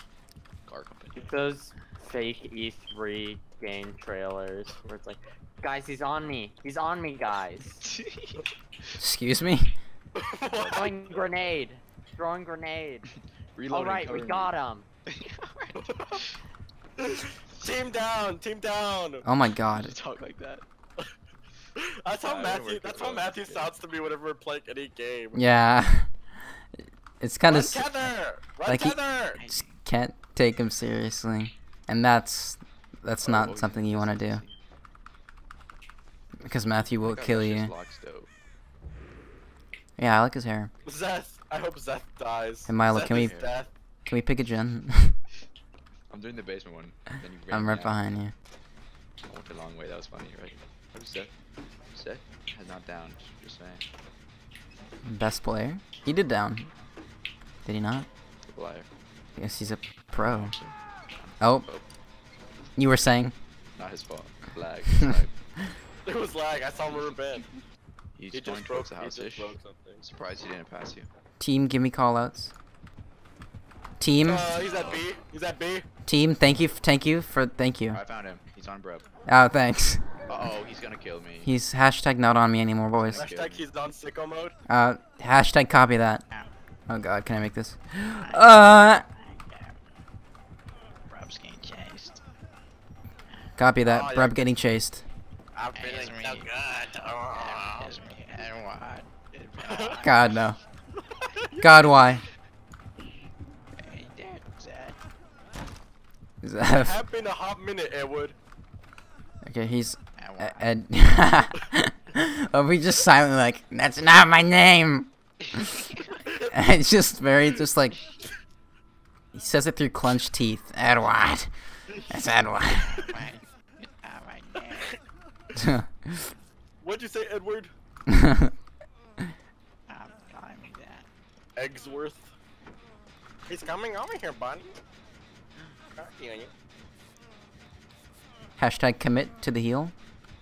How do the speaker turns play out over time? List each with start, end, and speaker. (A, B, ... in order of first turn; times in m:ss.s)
0:00.6-0:01.3 A
0:01.1-0:07.8 B
0:07.8-0:08.4 A
0:09.0-0:09.8 C
0:10.1-0:11.2 D
0:10.5-0:10.9 A
0:10.6-0:13.1 B
0:13.6-0:14.5 A
0:13.7-0:14.9 B
0:15.0-0:16.4 A
0:17.0-0:19.2 D
0:19.2-0:19.9 C
0:19.7-0:20.6 A
0:21.8-0:25.4 D
0:22.2-0:23.7 A
0:25.3-0:28.0 C
0:27.5-0:29.4 D
0:28.6-0:34.4 C
0:29.3-0:29.8 A
0:33.2-0:34.6 A
0:36.4-0:37.7 C
0:36.4-0:38.3 A
0:40.0-0:40.7 C
0:40.8-0:43.7 D
0:42.7-0:43.4 C
0:43.0-0:43.5 A
0:44.1-0:45.2 C
0:46.1-0:48.0 A
0:47.5-0:48.3 C
0:49.2-0:51.3 A
0:51.9-0:53.8 A
0:55.0-0:56.7 C
0:57.6-0:58.1 C
0:58.5-0:58.9 A
0:59.4-1:00.5 C
1:00.2-1:01.8 A
1:01.4-1:01.6 C
1:02.8-1:03.3 C
1:03.7-1:05.3 A
1:06.0-1:07.4 D
1:06.9-1:07.2 A
1:08.1-1:11.1 A
1:08.3-1:10.0 D
1:11.4-1:12.5 C
1:14.0-1:14.5 C
1:14.2-1:15.8 D
1:14.5-1:15.1 A
1:16.0-1:18.0 C
1:17.9-1:19.1 A
1:19.3-1:20.0 C
1:20.3-1:21.5 A
1:21.4-1:23.3 C
1:23.0-1:23.6 A
1:23.2-1:24.6 D
1:24.7-1:26.2 C
1:26.9-1:29.0 C
1:28.1-1:29.8 A
1:31.1-1:32.2 A
1:33.6-1:35.0 C
1:33.8-1:34.4 D
1:35.5-1:38.0 D
1:35.7-1:36.5 A
1:37.2-1:40.4 A
1:39.6-1:40.0 D
1:40.0-1:40.6 C
1:41.1-1:41.8 D
1:41.6-1:42.2 C
1:43.7-1:45.0 A
1:46.4-1:47.0 C
1:46.7-1:48.4 D
1:49.4-1:55.8 C
1:50.2-1:50.7 A
1:55.4-1:56.2 A
1:56.5-1:58.0 C
1:59.3-2:03.1 C
2:02.9-2:05.0 A
2:05.6-2:06.3 C
2:06.8-2:07.7 D
2:08.1-2:08.5 C
2:09.9-2:11.1 A
2:11.6-2:12.3 D
2:13.5-2:14.8 D
2:16.0-2:16.5 D
2:18.6-2:19.9 C